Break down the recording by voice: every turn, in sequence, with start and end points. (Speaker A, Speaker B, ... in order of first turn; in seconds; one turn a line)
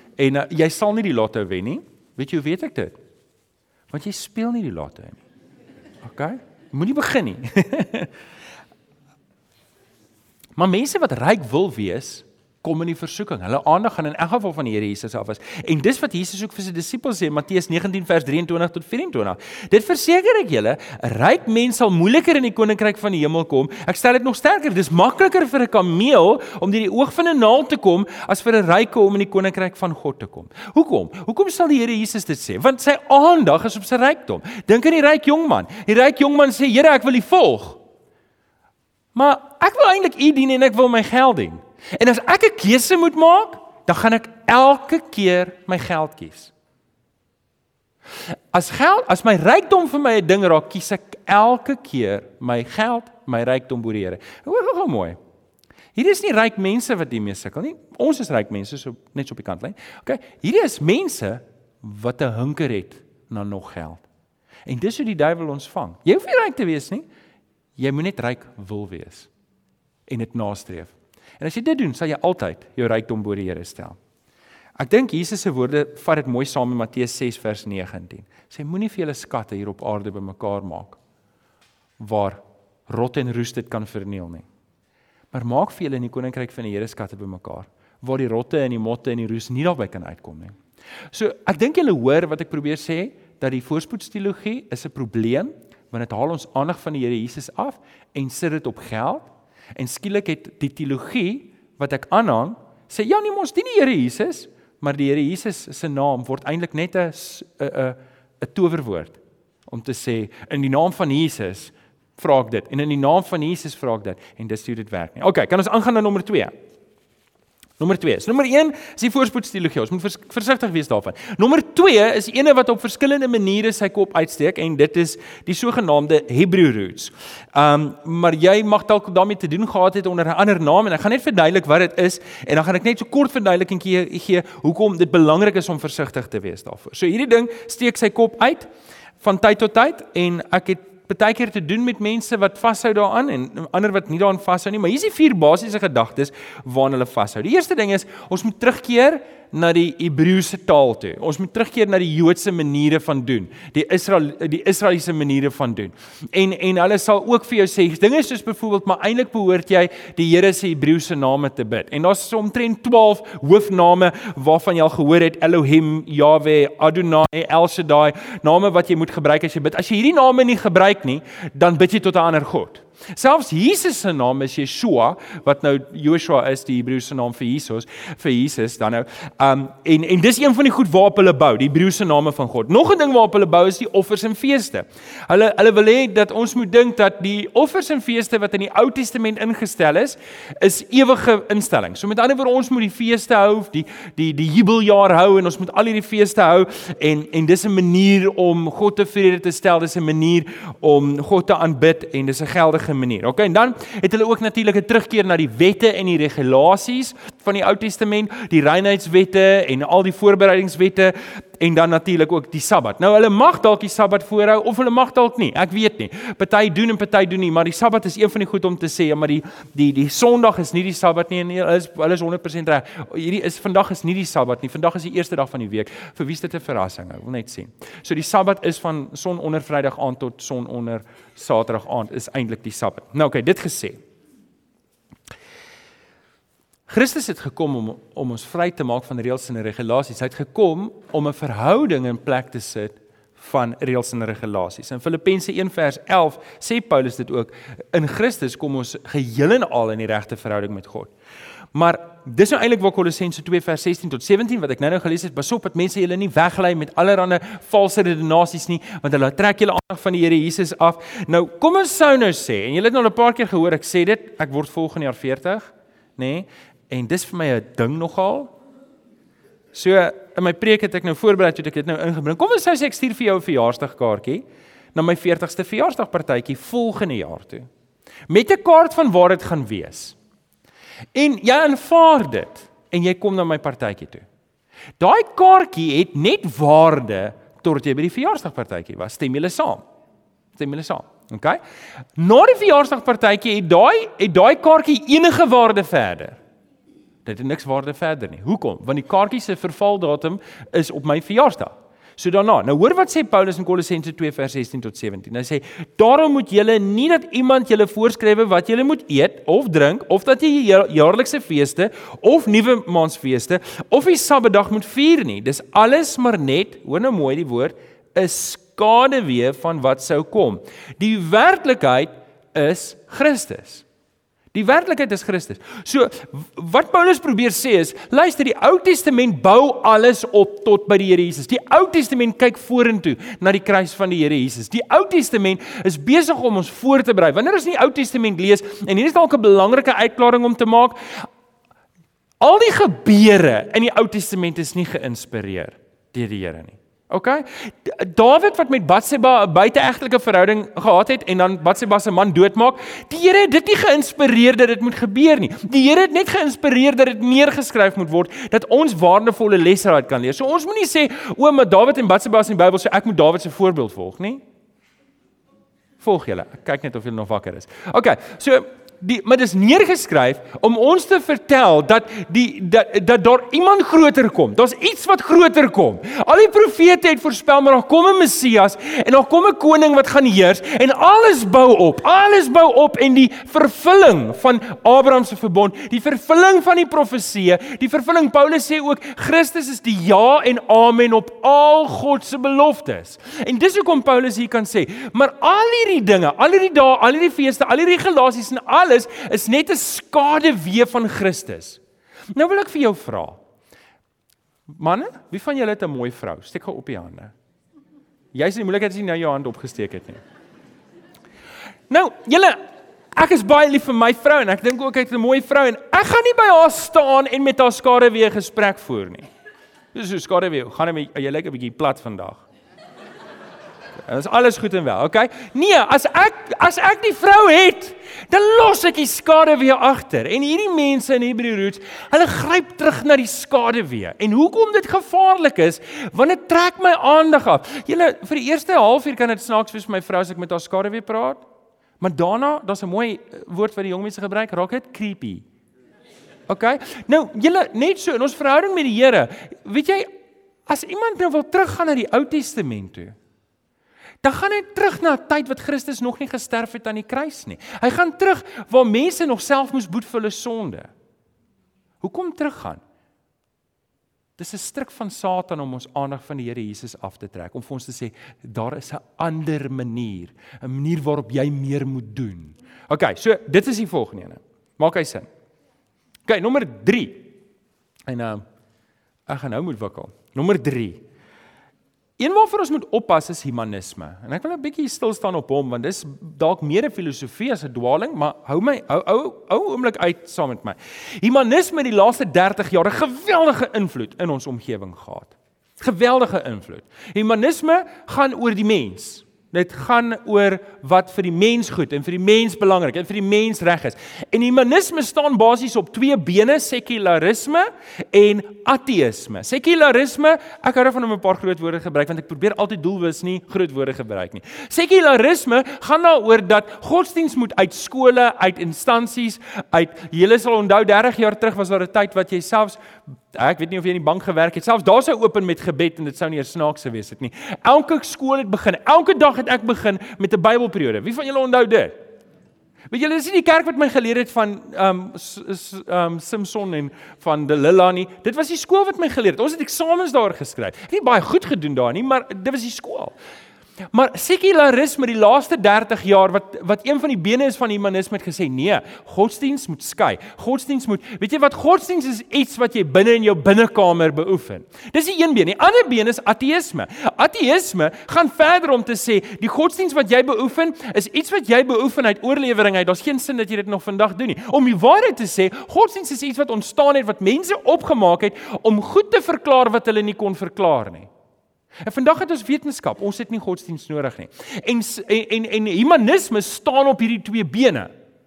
Speaker A: 0.2-2.9
Speaker A: 3.9-5.2
Speaker A: 6.0-8.1
Speaker A: 10.6-37.8
Speaker A: 39.1-46.5
Speaker A: 48.5-55.2
Speaker A: 55.9-64.0
Speaker A: 64.7-67.1
Speaker A: 67.8-69.3
Speaker A: 70.1-74.0
Speaker A: 74.8-81.0
Speaker A: 82.0-84.5
Speaker A: 85.3-90.5
Speaker A: 91.1-116.5
Speaker A: 117.8-138.7
Speaker A: 139.2-234.0
Speaker A: 236.9-251.1
Speaker A: 251.7-268.5
Speaker A: 269.7-277.7
Speaker A: 278.3-280.1
Speaker A: 281.1-284.2
Speaker A: 285.0-289.8
Speaker A: 290.6-291.6
Speaker A: 292.1-296.4
Speaker A: 297.2-323.8
Speaker A: 324.5-341.3
Speaker A: 342.4-364.4
Speaker A: 366.0-401.8
Speaker A: 402.3-403.4
Speaker A: 404.7-407.3
Speaker A: 408.3-410.2
Speaker A: 411.9-412.6
Speaker A: 413.1-419.3
Speaker A: 419.9-422.4
Speaker A: 424.0-441.4
Speaker A: 442.0-445.4
Speaker A: 446.5-450.1
Speaker A: 450.7-453.1
Speaker A: 454.2-460.9
Speaker A: 462.0-462.8
Speaker A: 464.4-475.3
Speaker A: 476.3-477.3
Speaker A: 478.1-478.4
Speaker A: 479.3-481.0
Speaker A: 482.2-531.9
Speaker A: 532.9-543.1
Speaker A: 543.9-571.1
Speaker A: 571.8-577.9